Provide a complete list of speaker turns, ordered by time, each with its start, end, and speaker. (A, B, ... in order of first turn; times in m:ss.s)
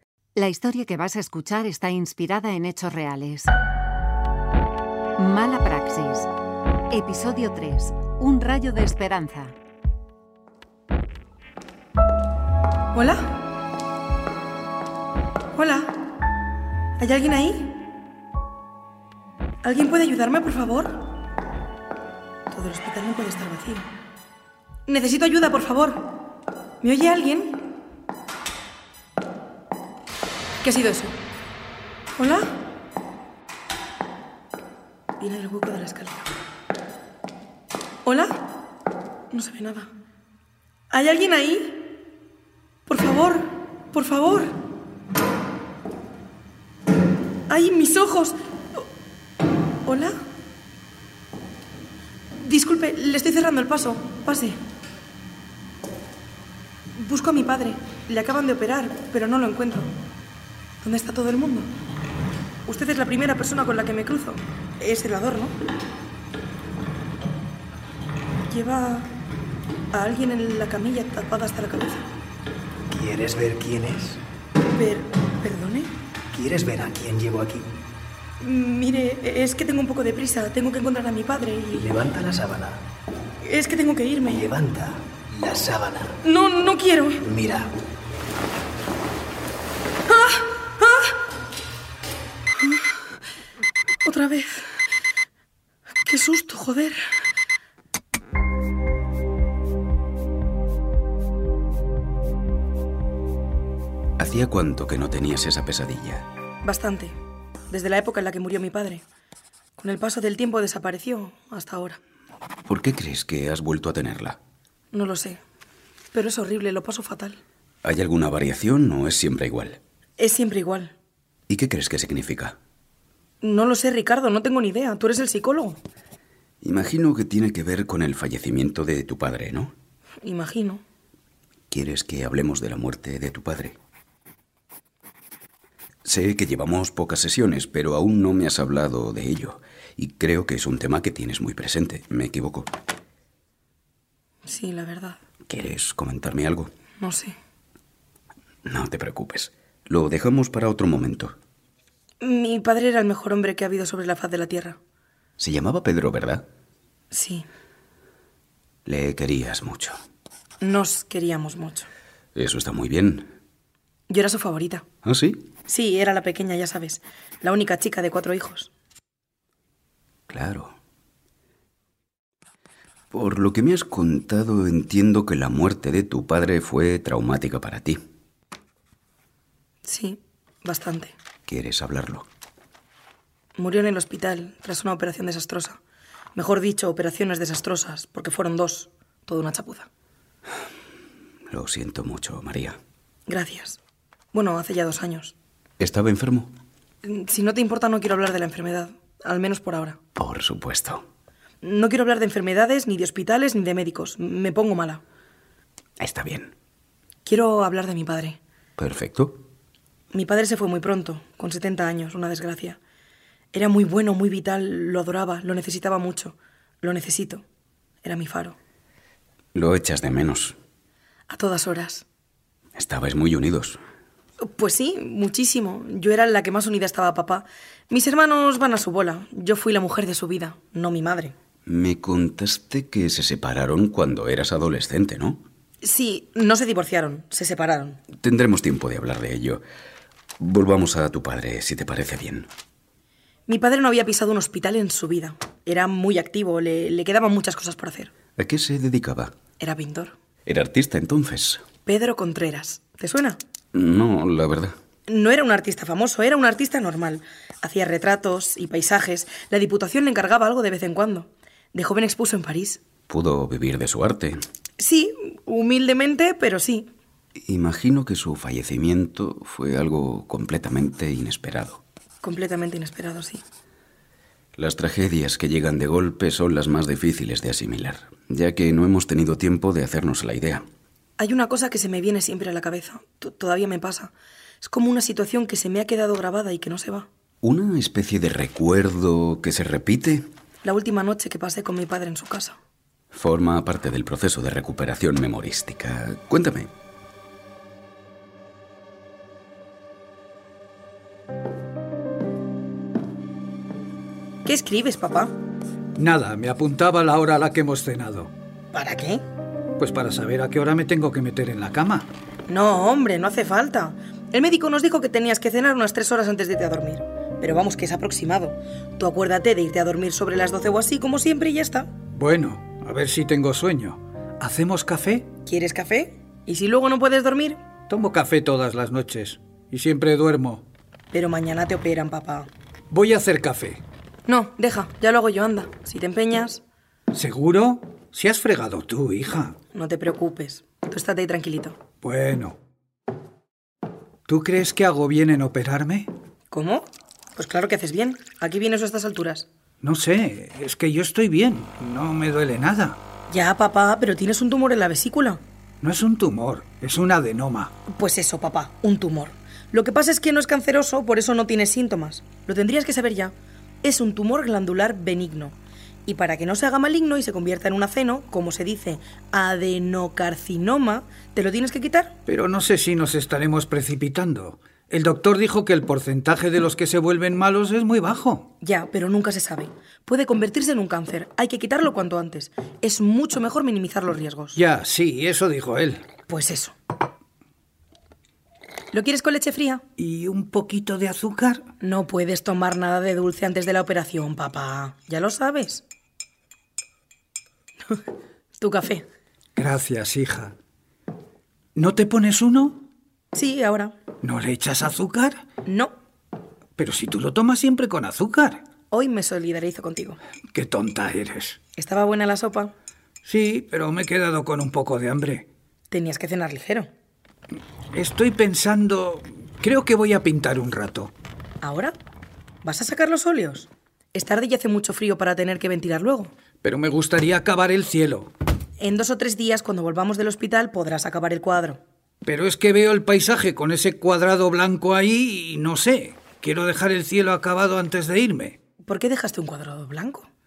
0:00.4-0:03.5 A
0:05.2-0:06.3 A
0:06.9-0:09.5 A
0:12.9-0:13.4 B
0:15.5-0:16.0 B
0:17.0-0:17.8 B
0:19.6-0:21.1 B
0:22.5-0:23.9 B
0:24.9-0:26.1 B
0:26.8-0:27.7 B
0:30.6-0:31.2 B
0:32.2-0:32.5 B
0:35.2-0:36.3 B
0:38.0-0:38.5 B
0:39.3-0:39.9 B
0:40.9-0:41.9 B
0:42.8-0:44.6 B
0:47.5-0:48.8 B
0:49.8-0:50.2 B
0:52.4-0:54.6 B
0:56.9-0:59.9 B
1:00.8-1:01.7 B
1:02.6-1:05.5 B
1:08.5-1:09.1 B
1:09.9-1:12.0 B
1:12.9-1:14.2 C
1:14.7-1:15.9 B
1:16.3-1:17.7 C
1:18.4-1:21.9 B
1:21.8-1:22.8 C
1:23.4-1:24.5 B
1:24.3-1:26.2 C
1:26.2-1:27.2 B
1:27.2-1:27.7 C
1:30.1-1:31.1 B
1:32.5-1:33.0 B
1:34.0-1:34.6 B
1:36.0-1:37.0 B
1:44.2-1:46.2 D
1:46.6-1:47.2 B
1:47.7-1:49.0 B
1:49.8-1:52.0 B
1:52.7-1:54.4 D
1:54.9-1:55.4 B
1:56.1-1:57.4 B
1:57.8-1:59.8 D
2:00.2-2:00.9 B
2:01.5-2:02.6 D
2:03.4-2:05.8 B
2:06.6-2:09.7 D
2:10.2-2:10.8 B
2:11.7-2:13.8 D
2:16.0-2:22.7 D
2:24.4-2:25.2 B
2:25.5-2:26.7 D
2:27.0-2:27.3 B
2:28.6-2:31.4 D
2:32.2-2:34.8 B
2:35.4-2:36.4 D
2:37.1-2:37.4 B
2:38.8-2:40.0 D
2:40.6-2:41.9 B
2:42.3-2:43.3 D
2:44.1-2:44.8 B
2:45.0-2:45.4 D
2:45.7-2:48.7 B
2:50.3-2:50.8 D
2:53.1-2:58.0 D
2:59.8-3:01.1 B
3:01.5-3:02.3 D
3:03.6-3:05.8 B
3:06.3-3:09.9 B
3:11.5-3:12.8 D
3:13.3-3:13.8 B
3:14.3-3:15.3 B
3:15.8-3:16.5 D
3:17.0-3:20.0 B
3:20.2-3:21.0 D
3:21.6-3:25.0 B
3:26.0-3:26.5 D
3:27.2-3:28.4 B
3:28.8-3:29.4 D
3:30.1-3:32.8 B
3:33.5-3:37.4 B
3:38.0-3:38.6 B
3:39.5-3:40.5 D
3:41.3-3:42.0 B
3:42.7-3:43.8 D
3:44.4-3:51.3 B
3:51.6-3:55.4 D
3:55.8-3:58.0 B
3:58.1-3:59.6 D
4:00.4-4:02.5 D
4:03.5-4:08.1 B
4:08.4-4:09.3 D
4:09.6-4:10.1 B
4:10.4-4:11.6 D
4:11.8-4:13.4 B
4:13.7-4:14.7 D
4:15.1-4:22.8 B
4:23.1-4:24.4 D
4:24.8-4:26.9 B
4:27.4-4:31.8 D
4:32.2-4:33.4 B
4:34.6-4:40.6 D
4:41.2-4:47.1 B
4:47.4-4:50.3 D
4:50.6-4:52.6 B
4:53.1-4:56.7 D
5:04.4-5:05.3 B
5:06.0-5:08.3 E
5:08.7-5:09.2 B
5:09.8-5:12.1 E
5:12.5-5:21.9 B
5:22.1-5:25.3 E
5:25.4-5:27.6 B
5:27.9-5:30.6 E
5:31.1-5:32.5 B
5:32.9-5:33.8 E
5:34.3-5:36.6 B
5:37.1-5:39.6 E
5:39.7-5:41.8 B
5:42.0-5:42.6 E
5:44.3-5:46.1 E
5:46.5-5:49.5 B
5:49.8-5:53.0 E
5:53.3-5:55.4 B
5:55.8-5:57.7 E
5:57.9-6:12.2 B
6:12.2-6:18.5 E
6:18.6-6:24.6 B
6:24.5-6:26.0 E
6:26.3-6:26.7 B
6:28.9-6:29.8 B
6:30.0-6:31.6 E
6:31.8-6:35.8 B
6:38.6-6:39.0 B
6:39.6-6:40.5 E
6:41.7-6:42.8 E
6:43.3-6:44.0 B
6:44.2-6:45.4 E
6:45.6-6:45.9 B
6:46.8-6:48.6 E
6:48.9-6:50.2 B
6:50.5-6:51.6 E
6:51.8-6:52.7 B
6:53.2-6:55.5 E
6:55.9-6:56.9 B
6:57.9-7:01.1 E
7:01.6-7:02.0 B
7:02.6-7:06.3 B
7:06.6-7:08.3 E
7:08.8-7:11.8 B
7:12.2-7:18.6 E
7:18.8-7:20.3 B